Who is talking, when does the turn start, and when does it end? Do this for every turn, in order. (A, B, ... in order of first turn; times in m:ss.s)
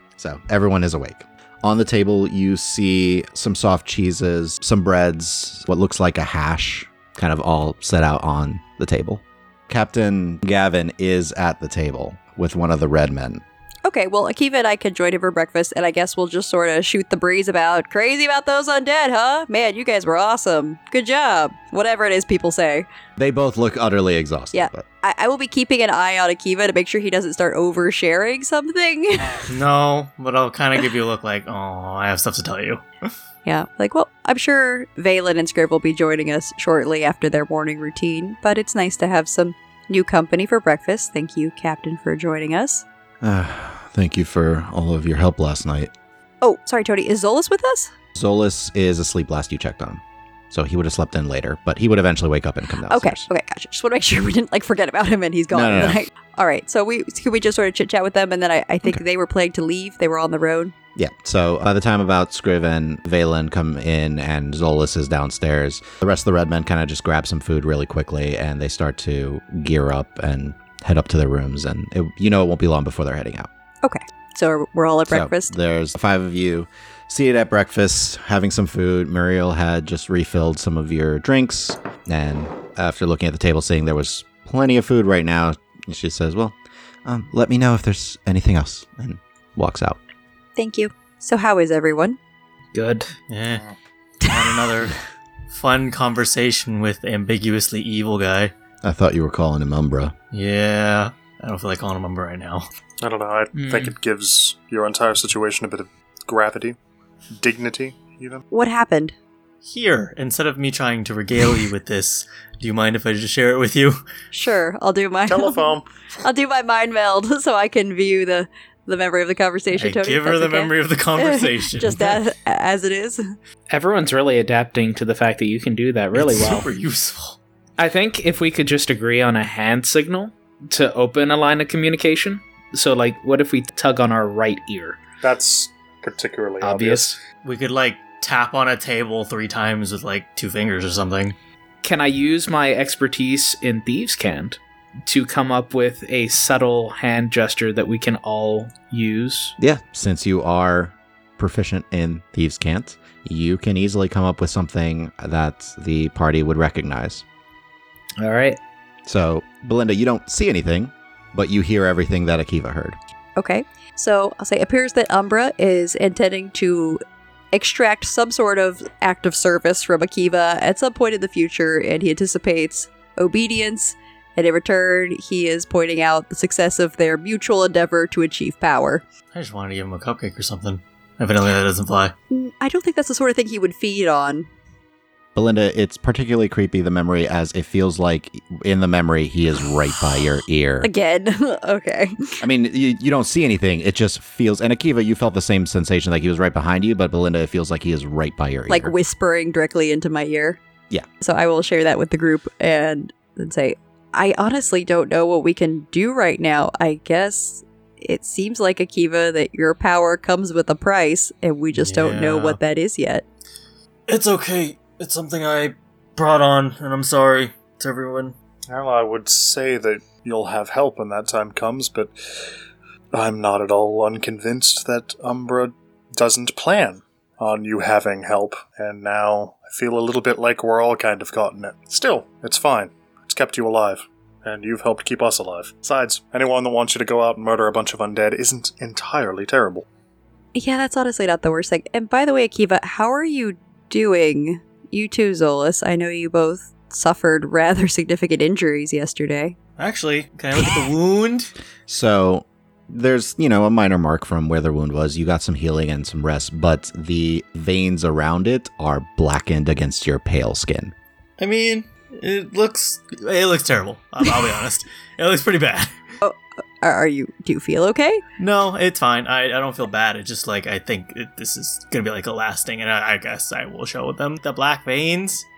0:00.2-0:13.4 A
0:13.8-0:22.9 B
0:23.2-0:24.8 A
0:24.5-0:29.5 B
0:29.5-0:33.1 C
0:33.4-0:42.8 B
0:43.2-0:45.9 A
0:46.4-0:47.9 B
0:48.2-0:53.3 A
0:52.8-1:00.8 B
0:55.5-0:56.0 A
1:01.0-1:13.5 A
1:13.8-1:15.5 B
1:15.1-1:30.0 A
1:30.6-1:32.2 B
1:32.7-1:33.1 D
1:33.3-1:33.6 C
1:34.2-1:35.0 C
1:35.5-1:38.5 C
1:38.8-1:40.1 A
1:40.3-1:42.7 C
1:43.0-1:46.8 E
1:43.5-1:43.9 D
1:47.4-1:48.4 E
1:48.5-1:49.1 B
1:49.6-1:54.0 C
1:54.3-2:03.3 B
1:55.3-1:55.9 E
1:59.7-2:02.2 C
2:03.7-2:06.7 D
2:06.1-2:07.4 C
2:07.8-2:15.0 D
2:15.2-2:17.1 E
2:16.6-2:17.2 D
2:17.4-2:21.4 C
2:21.8-2:29.6 D
2:29.6-2:37.2 A
2:38.2-2:38.6 D
2:39.1-2:43.0 A
2:43.4-2:47.0 B
2:47.5-2:59.0 B
2:59.3-3:02.1 C
3:02.3-3:04.5 B
3:05.4-3:10.9 A
3:10.8-3:12.4 B
3:12.4-3:18.9 A
3:18.7-3:20.6 B
3:21.2-3:33.2 B
3:31.8-3:32.6 C
3:34.1-3:38.4 C
3:38.7-3:42.1 E
3:43.1-3:59.9 E
4:00.6-4:09.6 B
4:09.8-4:11.5 C
4:11.9-4:20.9 A
4:21.4-4:25.9 C
4:26.2-4:28.2 B
4:28.4-4:35.5 C